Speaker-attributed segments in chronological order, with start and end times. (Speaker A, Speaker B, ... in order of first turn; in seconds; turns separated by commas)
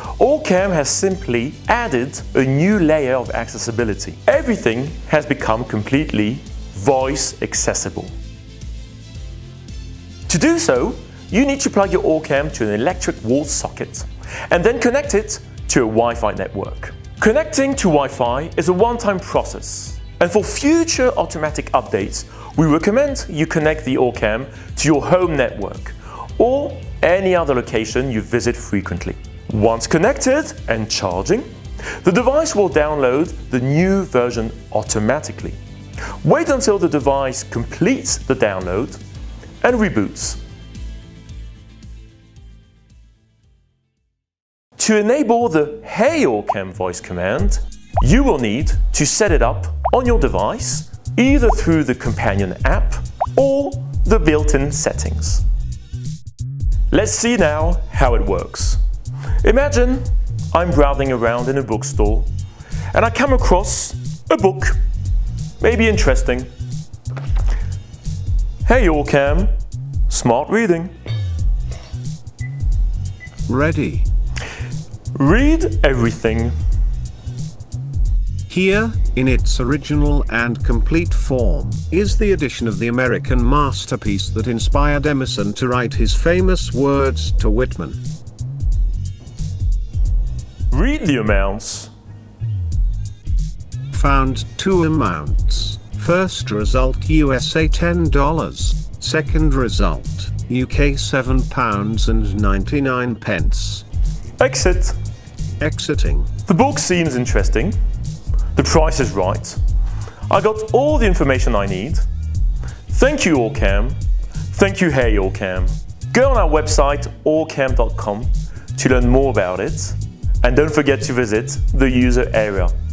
Speaker A: 0.2-8.1, Speaker A: 10.3-31.5, Speaker A: 32.0-35.6, Speaker A: 36.2-39.0, Speaker A: 39.6-40.4, Speaker A: 44.8-55.4, Speaker A: 56.9-58.8, Speaker A: 59.4-62.3, Speaker A: 62.9-64.8, Speaker A: 65.6-66.5, Speaker A: 68.6-69.5, Speaker A: 70.1-70.9, Speaker B: 73.5-74.0, Speaker A: 75.1-76.5, Speaker B: 78.5-88.0, Speaker A: 90.7-91.9, Speaker B: 93.9-103.8, Speaker A: 104.4-104.9, Speaker B: 105.6-106.3, Speaker A: 106.5-107.7, Speaker A: 108.5-109.6, Speaker A: 110.3-112.0, Speaker A: 112.9-113.9, Speaker A: 114.5-122.7